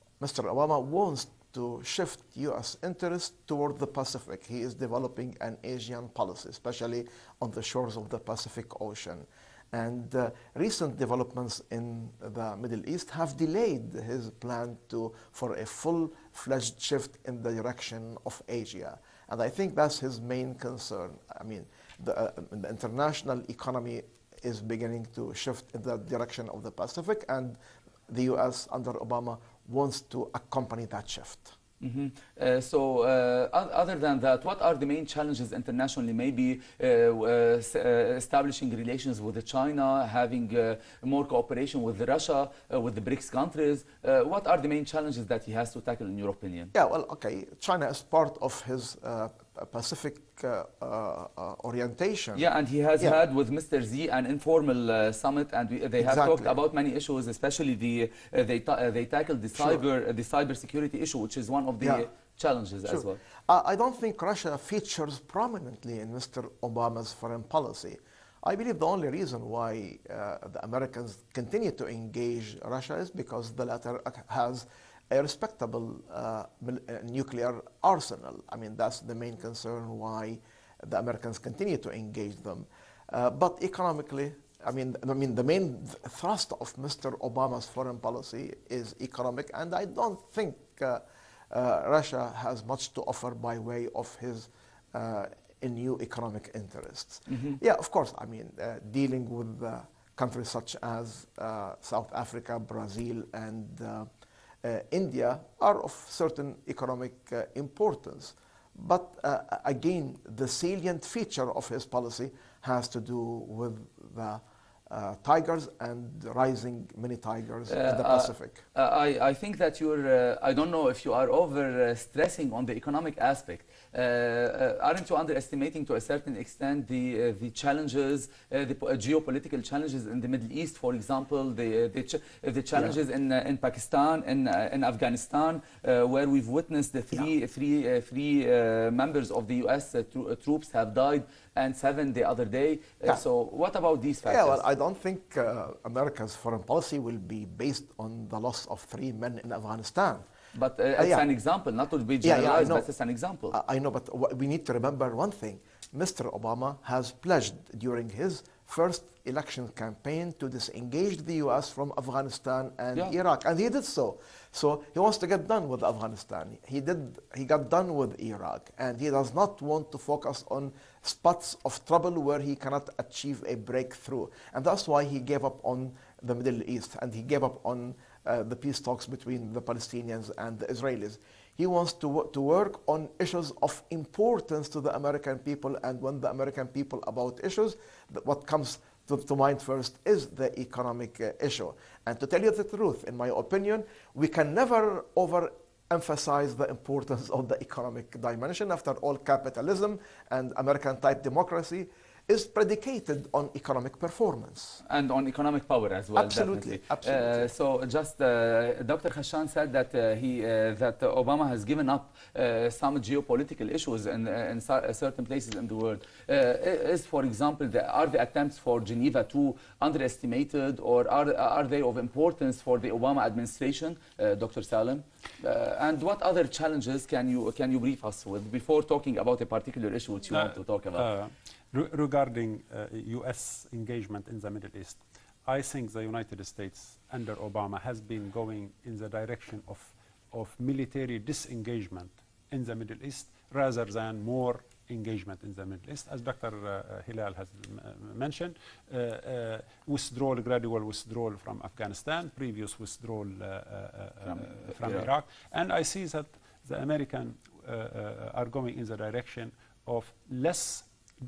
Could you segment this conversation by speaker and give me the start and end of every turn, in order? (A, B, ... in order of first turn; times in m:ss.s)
0:00.2-0:31.6 A
0:31.8-0:46.7 B
0:46.7-0:52.4 A
0:52.3-1:03.2 B
0:56.0-0:56.6 A
0:59.6-0:59.8 A
1:01.8-1:02.1 A
1:02.9-1:44.1 A
1:37.3-1:37.6 B
1:44.6-1:58.6 A
1:57.7-2:24.6 B
2:24.2-2:30.3 A
2:30.5-2:33.6 B
2:31.0-2:31.3 A
2:32.2-2:32.9 A
2:33.5-3:24.8 A
3:24.9-3:51.1 B
3:26.2-3:27.5 A
3:50.3-4:20.9 C
4:14.3-4:15.1 B